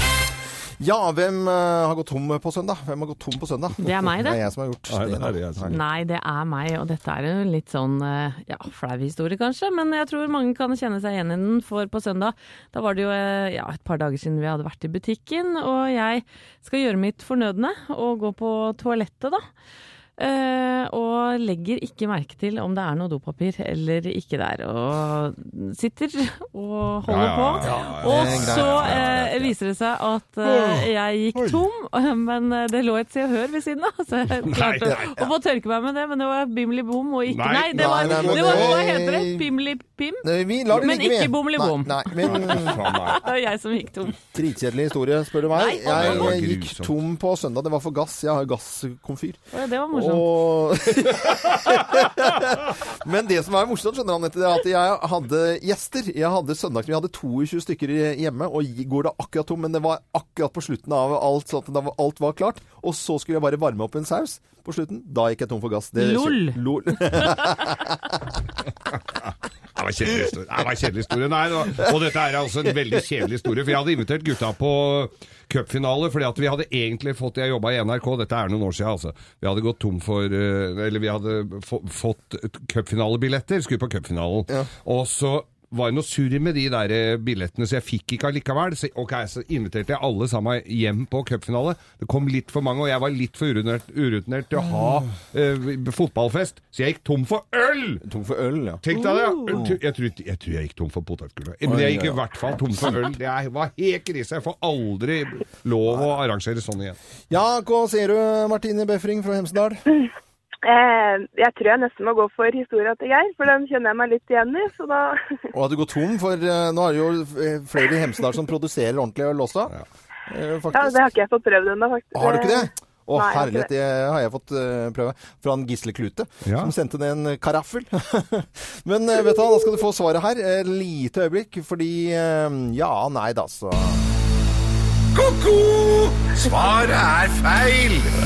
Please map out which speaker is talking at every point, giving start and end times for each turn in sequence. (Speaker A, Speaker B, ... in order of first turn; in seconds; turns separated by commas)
Speaker A: 0.8-5.7, Speaker B: 3.8-4.4, Speaker C: 4.9-5.8, Speaker B: 5.7-19.4, Speaker B: 20.2-44.2, Speaker C: 27.1-29.4, Speaker A: 27.6-29.3, Speaker A: 30.4-30.8, Speaker C: 34.5-35.2, Speaker C: 37.3-38.9, Speaker A: 37.7-39.5, Speaker A: 40.2-42.8, Speaker C: 42.2-43.2, Speaker A: 44.3-67.9, Speaker B: 45.5-46.2, Speaker C: 45.9-46.9, Speaker B: 49.5-50.3, Speaker B: 66.0-66.6, Speaker C: 69.8-98.0, Speaker A: 94.6-95.0, Speaker A: 98.0-98.8, Speaker C: 98.8-107.0, Speaker A: 99.5-99.8, Speaker A: 101.6-102.2, Speaker A: 107.3-109.8, Speaker D: 110.6-115.4, Speaker A: 115.5-119.7, Speaker A: 120.3-121.1, Speaker D: 120.7-123.7, Speaker A: 122.1-134.1, Speaker C: 126.4-126.7, Speaker E: 135.1-138.1